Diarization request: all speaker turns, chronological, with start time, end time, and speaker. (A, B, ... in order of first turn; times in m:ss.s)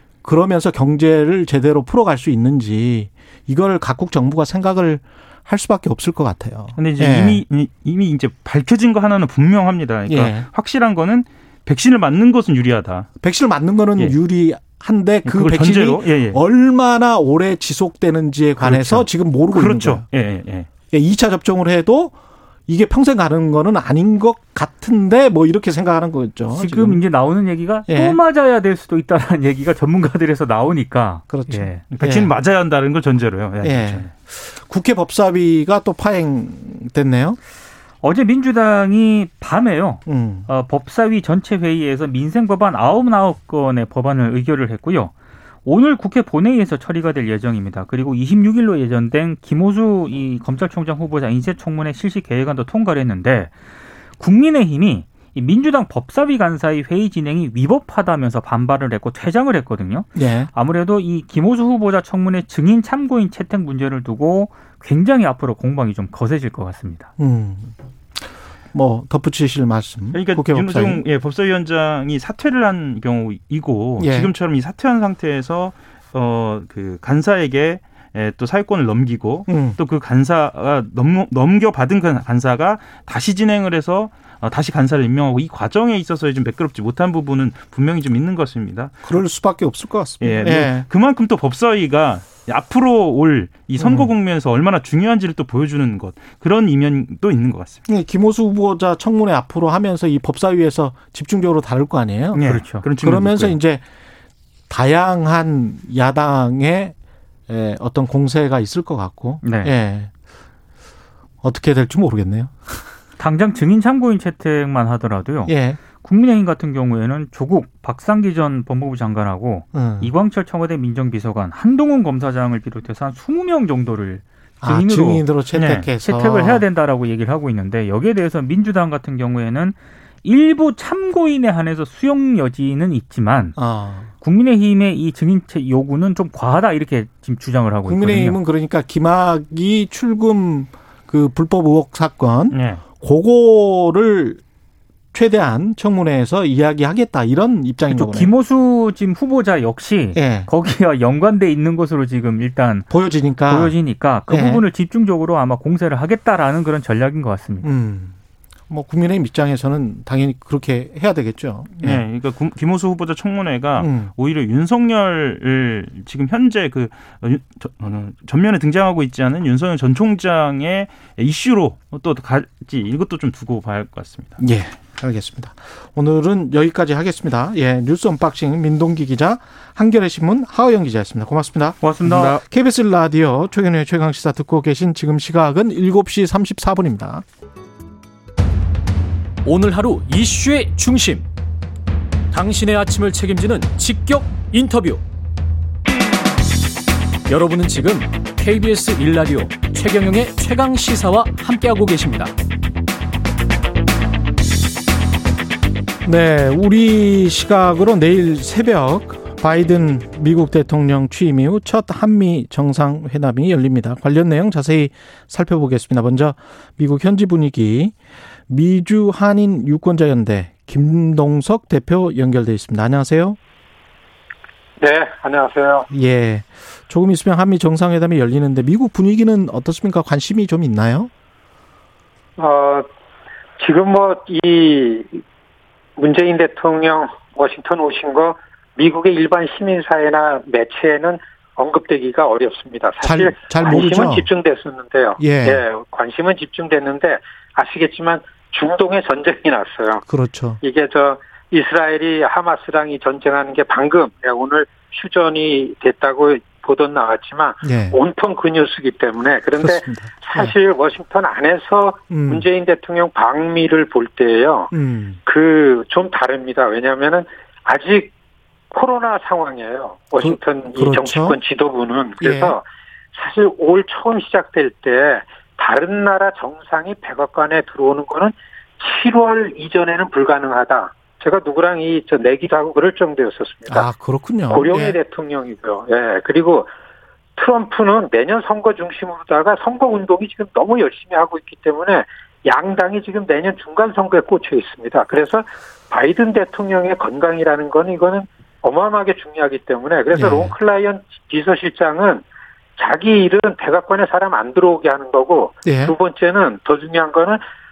0:00.2-0:07.4 A
0:06.8-0:13.1 B
0:10.1-0:10.5 A
0:13.2-0:20.0 A
0:15.2-0:16.4 B
0:18.6-0:20.7 B
0:20.9-0:22.1 A
0:22.7-0:27.0 A
0:26.6-0:31.8 C
0:27.9-0:28.2 A
0:31.3-0:32.3 A
0:31.8-0:34.1 B
0:33.6-0:37.4 A
0:38.0-0:45.1 C
0:40.0-0:40.5 A
0:45.6-0:53.5 C
0:54.2-1:07.1 C
1:00.1-1:00.5 A
1:07.2-1:11.0 A
1:10.1-1:29.0 B
1:14.0-1:14.3 A
1:19.5-1:19.8 A
1:29.0-1:30.8 A
1:30.2-1:37.8 B
1:33.8-1:34.1 A
1:37.9-1:43.8 A
1:42.3-1:43.6 B
1:42.4-1:42.8 C
1:44.7-1:46.9 A
1:47.5-1:50.1 A
1:49.4-1:49.7 C
1:51.4-1:52.8 A
1:53.2-2:13.6 C
1:55.4-1:55.8 A
1:59.7-2:00.1 A
2:04.6-2:06.6 A
2:13.6-2:14.1 A
2:14.2-2:18.4 C
2:17.8-2:24.4 A
2:22.5-2:22.8 C
2:25.1-2:28.3 A
2:27.9-2:32.9 C
2:30.1-2:30.5 A
2:32.9-2:33.7 A
2:33.5-2:37.7 C
2:34.3-2:34.6 A
2:37.6-2:38.2 A
2:38.7-2:42.0 A
2:41.8-2:54.4 B
2:43.8-2:44.1 A
2:54.4-3:07.2 A
3:01.8-3:02.4 C
3:09.4-3:11.2 D
3:12.3-3:15.0 D
3:17.3-3:22.3 D
3:26.0-3:38.0 A
3:38.5-3:43.4 A
3:44.8-3:45.9 E
3:45.9-3:51.1 A
3:52.4-3:52.9 E
3:53.6-3:55.2 E
3:56.0-4:10.0 E
4:03.0-4:04.3 A
4:05.2-4:05.6 A
4:10.0-4:10.6 A
4:10.6-4:24.7 E
4:17.6-4:18.0 A
4:19.6-4:20.5 A
4:22.1-4:22.4 A
4:24.7-4:25.2 A
4:25.2-4:28.1 E
4:28.7-4:43.9 E
4:30.2-4:31.4 A
4:32.2-4:32.6 A
4:43.7-4:45.0 A
4:44.5-4:46.7 E
4:47.4-5:02.2 E
5:00.1-5:00.5 A
5:02.8-5:07.4 E
5:05.6-5:05.9 A